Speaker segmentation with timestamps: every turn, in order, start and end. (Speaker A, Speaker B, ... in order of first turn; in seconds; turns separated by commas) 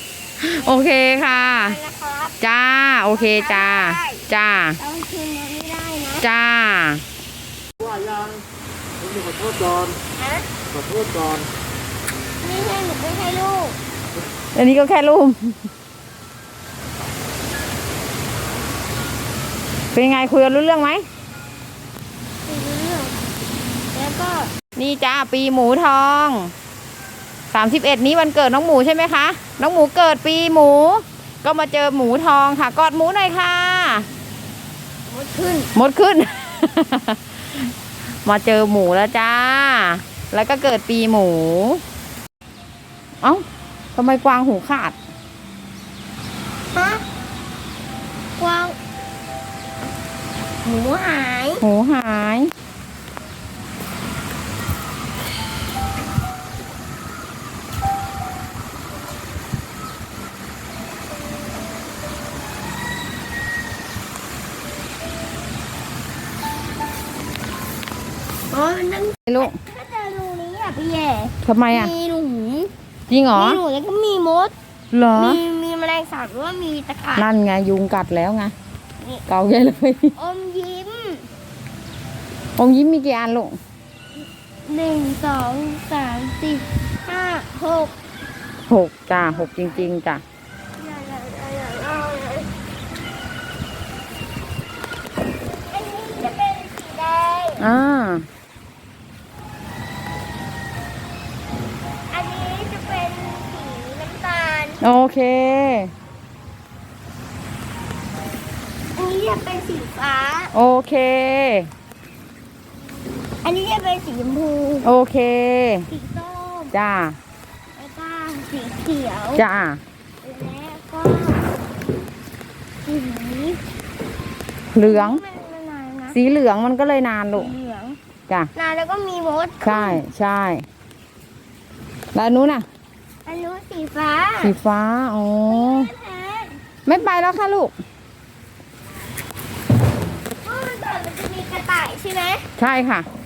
Speaker A: 0.4-1.8, Speaker B: 0.6-2.4, Speaker A: 2.4-4.8, Speaker B: 3.1-4.2, Speaker B: 4.8-6.2, Speaker A: 6.2-7.0, Speaker C: 7.8-8.4, Speaker C: 9.0-10.0, Speaker B: 10.2-10.5, Speaker C: 10.7-11.5, Speaker B: 12.4-13.8, Speaker A: 14.5-15.7, Speaker A: 19.9-21.1, Speaker B: 22.4-23.1, Speaker B: 23.9-24.5, Speaker A: 24.8-26.5, Speaker A: 27.5-34.1, Speaker B: 35.1-35.7, Speaker A: 35.7-37.7, Speaker A: 38.2-41.8, Speaker A: 43.9-45.0, Speaker B: 46.7-47.0, Speaker B: 48.4-48.8, Speaker B: 50.6-51.6, Speaker A: 51.6-52.5, Speaker B: 68.5-72.7, Speaker A: 69.3-69.6, Speaker A: 71.4-71.9, Speaker A: 73.1-73.6, Speaker B: 73.3-74.5, Speaker A: 74.9-75.4, Speaker B: 75.1-77.3, Speaker A: 77.2-78.5, Speaker A: 79.3-80.1, Speaker B: 80.2-81.3, Speaker A: 82.6-83.6, Speaker B: 84.7-87.9, Speaker A: 88.7-90.2, Speaker B: 89.2-89.9, Speaker B: 90.8-92.5, Speaker B: 95.7-97.6, Speaker A: 97.6-98.3, Speaker B: 102.1-104.8, Speaker A: 104.8-105.9, Speaker B: 109.0-110.5, Speaker A: 110.5-111.7, Speaker B: 113.4-114.9, Speaker A: 114.8-115.9, Speaker B: 115.9-116.7, Speaker A: 116.7-117.2, Speaker B: 117.8-119.4, Speaker A: 119.3-119.8, Speaker B: 120.2-121.5, Speaker B: 122.8-123.6, Speaker A: 124.7-125.2, Speaker B: 124.8-126.2, Speaker A: 126.1-127.5, Speaker B: 127.3-128.0, Speaker B: 128.6-130.0, Speaker A: 129.6-130.6, Speaker A: 132.1-132.7, Speaker B: 133.2-134.5, Speaker A: 134.4-135.9, Speaker B: 135.5-136.6, Speaker A: 136.8-137.7, Speaker B: 140.4-142.4, Speaker A: 142.6-143.1